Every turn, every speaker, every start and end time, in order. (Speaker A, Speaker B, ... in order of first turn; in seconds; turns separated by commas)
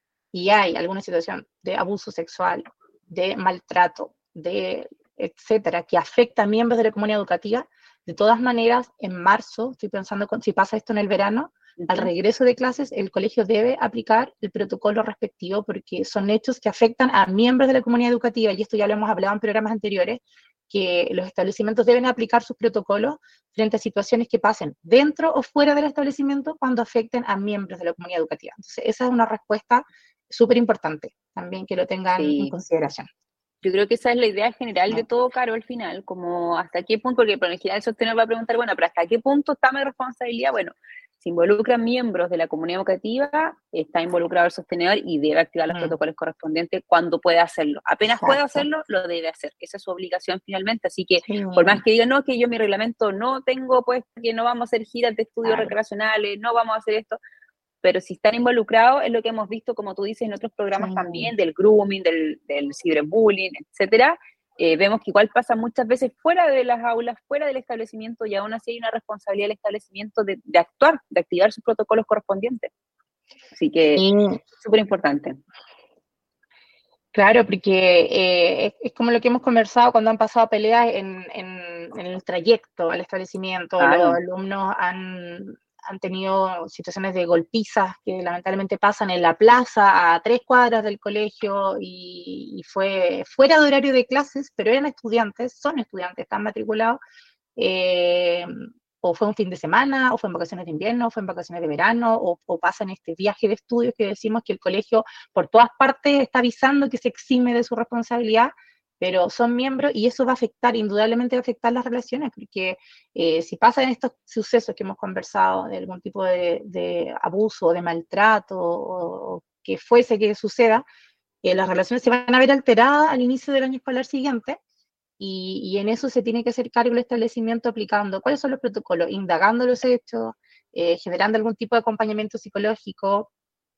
Speaker A: 0.3-33.1, Speaker B: 11.8-12.1, Speaker B: 32.1-32.5, Speaker B: 33.6-57.2, Speaker A: 45.7-45.9, Speaker A: 48.0-48.6, Speaker A: 51.3-51.8, Speaker A: 55.4-55.7, Speaker B: 57.8-72.7, Speaker A: 60.8-61.3, Speaker B: 73.5-74.0, Speaker A: 74.0-74.4, Speaker B: 74.6-75.4, Speaker A: 77.1-97.0, Speaker B: 83.8-84.2, Speaker A: 97.5-120.8, Speaker A: 121.4-124.6, Speaker A: 125.2-133.3